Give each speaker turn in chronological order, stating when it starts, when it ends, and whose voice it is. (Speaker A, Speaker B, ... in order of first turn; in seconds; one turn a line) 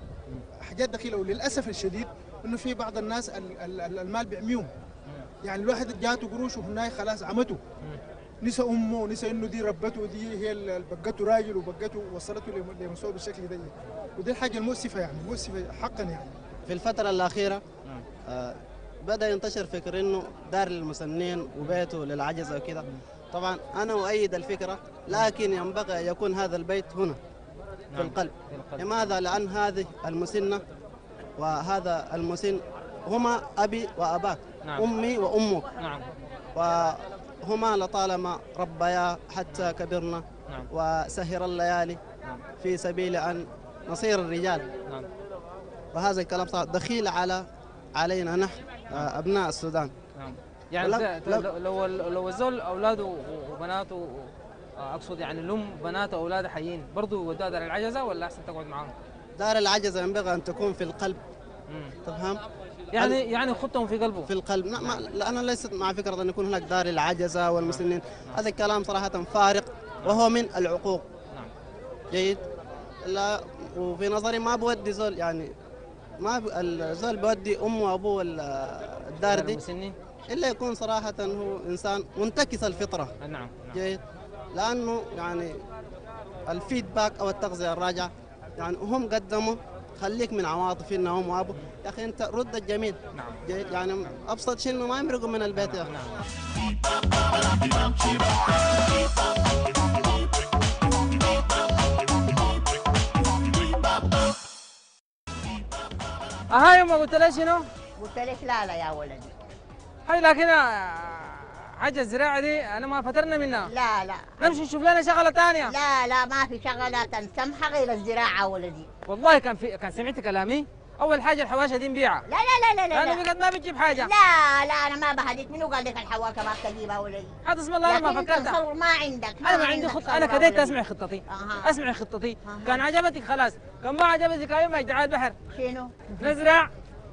Speaker A: 0.6-4.7
Speaker A: 5.4-7.6
Speaker A: 8.4-16.4
Speaker B: 16.6-17.6
Speaker B: 18.3-27.2
Speaker C: 27.9-29.1
Speaker B: 27.9-30.6
Speaker B: 31.4-35.7
Speaker C: 35.8-36.0
Speaker B: 36.5-42.0
Speaker B: 42.6-44.7
Speaker B: 45.9-49.9
Speaker C: 50.1-58.9
Speaker B: 50.8-51.4
Speaker B: 59.4-61.2
Speaker B: 62.0-62.4
Speaker C: 62.9-64.3
Speaker B: 64.2-71.0
Speaker C: 67.7-68.4
Speaker B: 72.1-72.4
Speaker B: 73.0-75.5
Speaker B: 76.2-79.6
Speaker C: 79.3-80.0
Speaker B: 80.3-83.1
Speaker C: 83.2-83.8
Speaker B: 83.7-84.0
Speaker B: 84.5-85.6
Speaker B: 86.5-95.9
Speaker C: 93.1-93.4
Speaker C: 95.5-96.2
Speaker C: 106.5-107.6
Speaker D: 108.0-109.3
Speaker C: 110.1-113.7
Speaker D: 113.7-114.6
Speaker C: 114.4-115.7
Speaker D: 115.7-118.9
Speaker C: 119.1-122.2
Speaker D: 122.3-123.2
Speaker C: 122.9-124.1
Speaker D: 123.9-127.3
Speaker C: 127.4-128.6
Speaker D: 127.8-131.8
Speaker C: 129.4-135.3
Speaker D: 132.4-132.8
Speaker D: 135.5-136.3
Speaker C: 136.2-136.7